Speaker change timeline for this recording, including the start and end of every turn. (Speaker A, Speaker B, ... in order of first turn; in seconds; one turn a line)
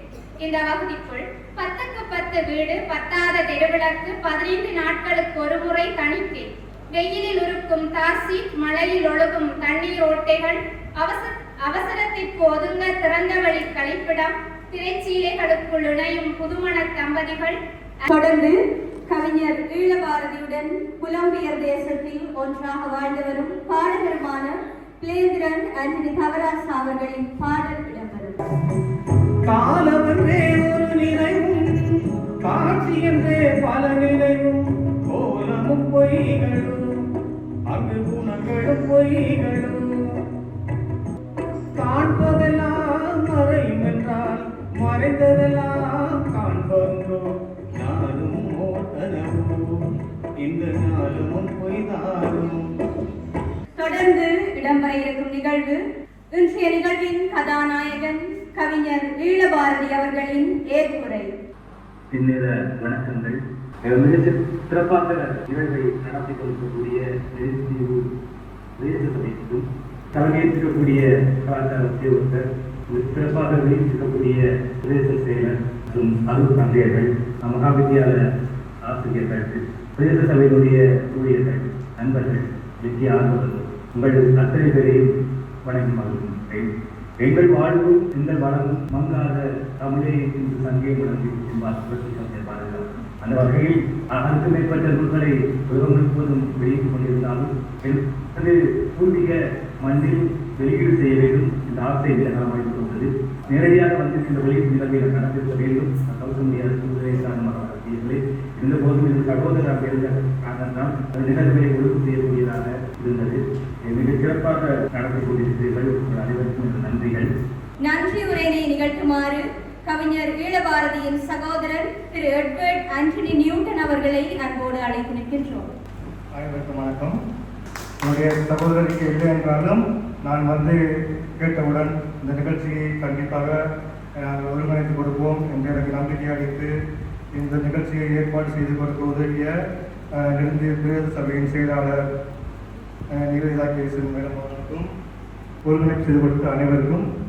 Speaker A: 0.4-17.5
Speaker B: 18.1-18.6
Speaker B: 19.1-28.4
Speaker C: 29.5-31.6
Speaker C: 32.5-34.5
Speaker C: 35.1-36.8
Speaker C: 37.7-39.8
Speaker C: 41.8-47.2
Speaker C: 47.8-49.6
Speaker C: 50.4-52.6
Speaker B: 53.8-55.8
Speaker B: 56.3-61.3
Speaker D: 62.1-68.0
Speaker D: 68.8-72.4
Speaker D: 72.9-78.2
Speaker D: 78.9-85.0
Speaker D: 85.7-86.7
Speaker D: 87.2-99.3
Speaker D: 99.8-113.4
Speaker D: 113.9-117.3
Speaker B: 117.8-125.7
Speaker E: 126.3-127.1
Speaker E: 128.0-130.8
Speaker E: 131.4-133.6
Speaker E: 134.2-136.7
Speaker E: 137.3-139.5
Speaker E: 140.2-142.0
Speaker E: 143.1-144.9
Speaker E: 145.6-147.0